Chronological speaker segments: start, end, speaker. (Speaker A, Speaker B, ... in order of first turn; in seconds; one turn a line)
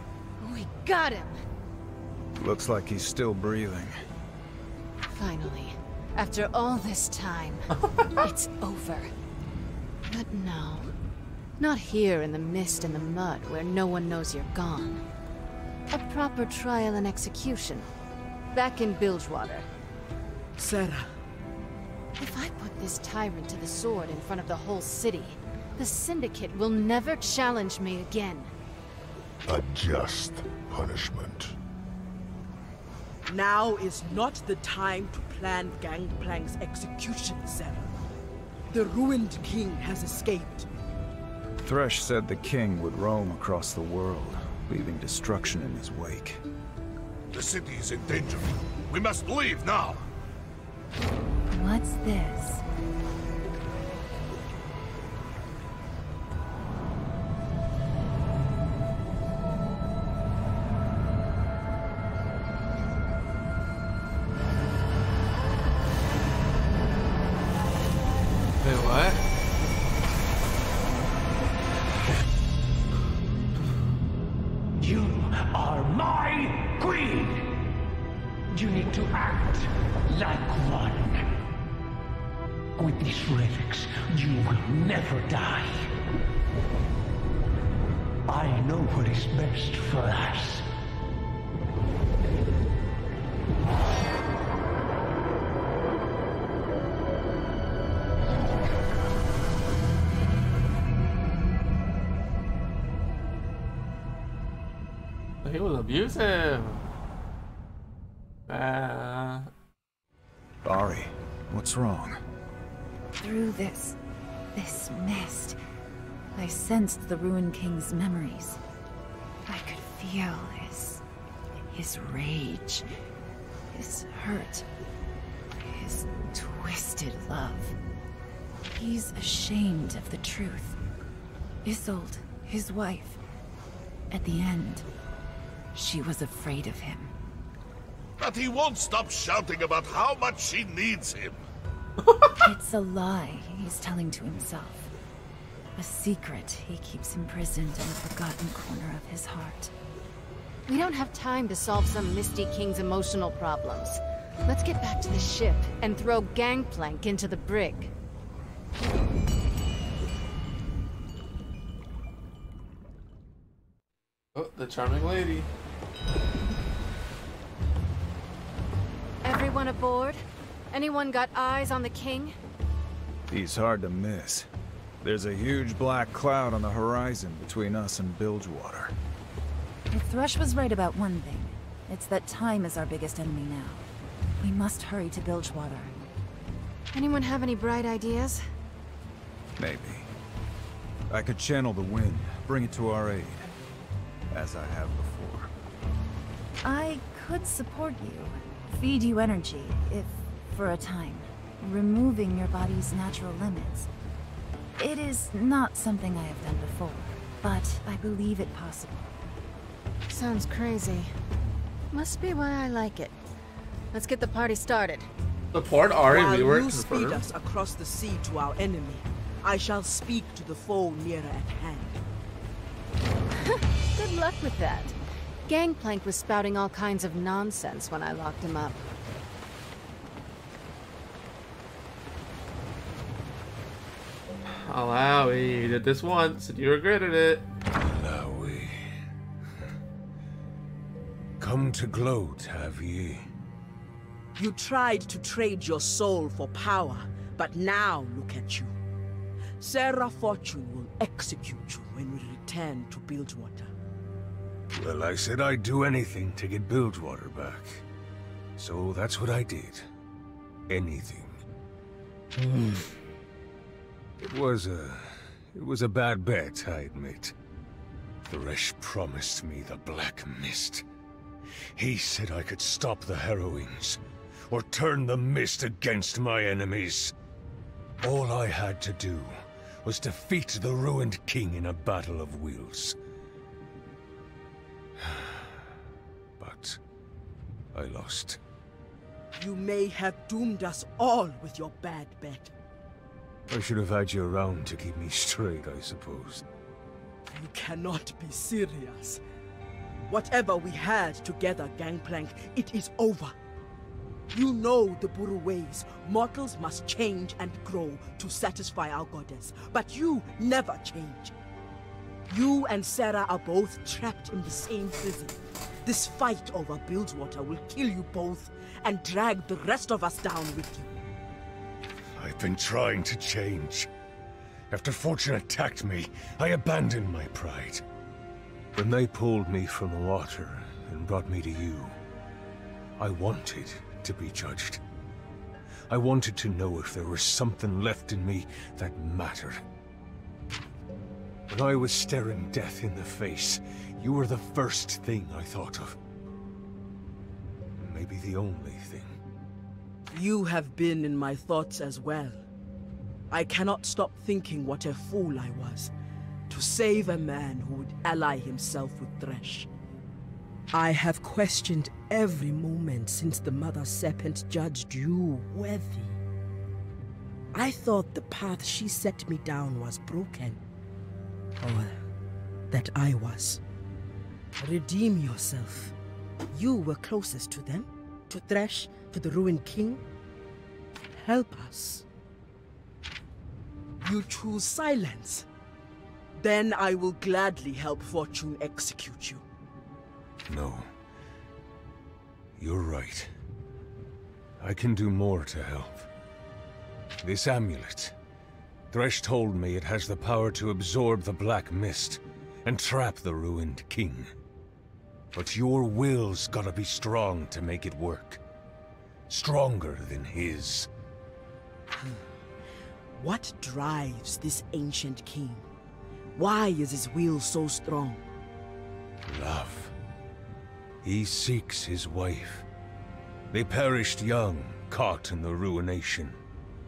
Speaker A: 0.4-1.4
Speaker B: 2.4-4.0
Speaker A: 5.1-9.1
Speaker A: 10.1-10.9
Speaker A: 11.6-15.0
Speaker A: 15.9-17.9
Speaker A: 18.5-19.7
Speaker C: 20.6-21.1
Speaker A: 22.2-28.5
Speaker D: 29.5-31.6
Speaker C: 33.3-37.9
Speaker C: 38.7-40.7
Speaker B: 41.6-46.4
Speaker D: 47.3-50.0
Speaker E: 51.5-52.6
Speaker F: 68.6-69.2
Speaker G: 74.8-77.6
Speaker G: 78.5-81.3
Speaker G: 82.8-85.9
Speaker G: 88.3-90.7
Speaker F: 105.4-106.8
Speaker F: 108.5-109.5
Speaker B: 110.6-112.2
Speaker E: 113.2-114.0
Speaker E: 114.5-115.6
Speaker E: 116.3-118.6
Speaker E: 119.5-121.0
Speaker E: 121.7-122.8
Speaker E: 123.7-124.6
Speaker E: 125.5-127.8
Speaker E: 128.7-130.8
Speaker E: 131.6-133.2
Speaker E: 134.1-134.8
Speaker E: 135.7-137.1
Speaker D: 138.2-141.4
Speaker E: 142.4-144.9
Speaker E: 145.8-149.7
Speaker A: 150.7-157.9
Speaker F: 164.3-165.5
Speaker A: 169.2-170.2
Speaker A: 170.7-172.3
Speaker B: 173.3-174.5
Speaker B: 175.0-178.9
Speaker E: 179.9-183.8
Speaker E: 184.4-185.9
Speaker A: 186.9-188.4
Speaker B: 189.6-190.1
Speaker B: 191.1-193.5
Speaker B: 194.3-195.5
Speaker E: 196.6-203.9
Speaker E: 204.8-209.1
Speaker A: 210.1-211.1
Speaker A: 211.9-213.1
Speaker A: 213.9-215.1
Speaker F: 215.5-217.2
Speaker C: 216.1-222.0
Speaker A: 223.4-224.9
Speaker A: 225.4-228.8
Speaker F: 234.5-237.4
Speaker H: 237.8-238.8
Speaker H: 241.4-243.3
Speaker C: 244.4-248.8
Speaker C: 249.6-253.7
Speaker H: 254.7-257.8
Speaker H: 258.6-259.9
Speaker H: 260.7-261.4
Speaker H: 264.2-267.3
Speaker H: 268.2-270.8
Speaker H: 271.8-277.1
Speaker H: 278.0-282.9
Speaker H: 285.0-285.5
Speaker H: 286.4-286.8
Speaker H: 287.7-288.4
Speaker C: 289.4-292.5
Speaker H: 293.5-296.4
Speaker C: 297.3-299.2
Speaker C: 300.0-303.3
Speaker C: 304.3-311.3
Speaker C: 312.3-320.9
Speaker H: 322.1-323.9
Speaker H: 324.7-327.8
Speaker H: 328.8-331.9
Speaker H: 333.0-334.8
Speaker H: 335.9-339.6
Speaker H: 341.5-346.0
Speaker H: 347.8-349.2
Speaker C: 350.1-352.4
Speaker C: 353.3-355.9
Speaker C: 356.5-359.7
Speaker C: 360.7-366.2
Speaker C: 367.5-370.6
Speaker C: 371.6-372.1
Speaker C: 372.7-373.6
Speaker C: 374.6-375.9
Speaker C: 376.5-380.0
Speaker C: 381.1-382.1
Speaker C: 384.0-385.4
Speaker C: 386.4-389.4
Speaker H: 390.5-390.9
Speaker H: 392.6-393.3
Speaker H: 394.6-396.1
Speaker H: 397.2-398.1
Speaker H: 398.9-404.3
Speaker H: 405.3-408.4
Speaker H: 409.3-410.9
Speaker C: 411.9-412.2
Speaker C: 413.1-415.6
Speaker C: 416.3-418.2
Speaker H: 419.2-419.9
Speaker H: 421.0-422.6
Speaker H: 423.5-426.4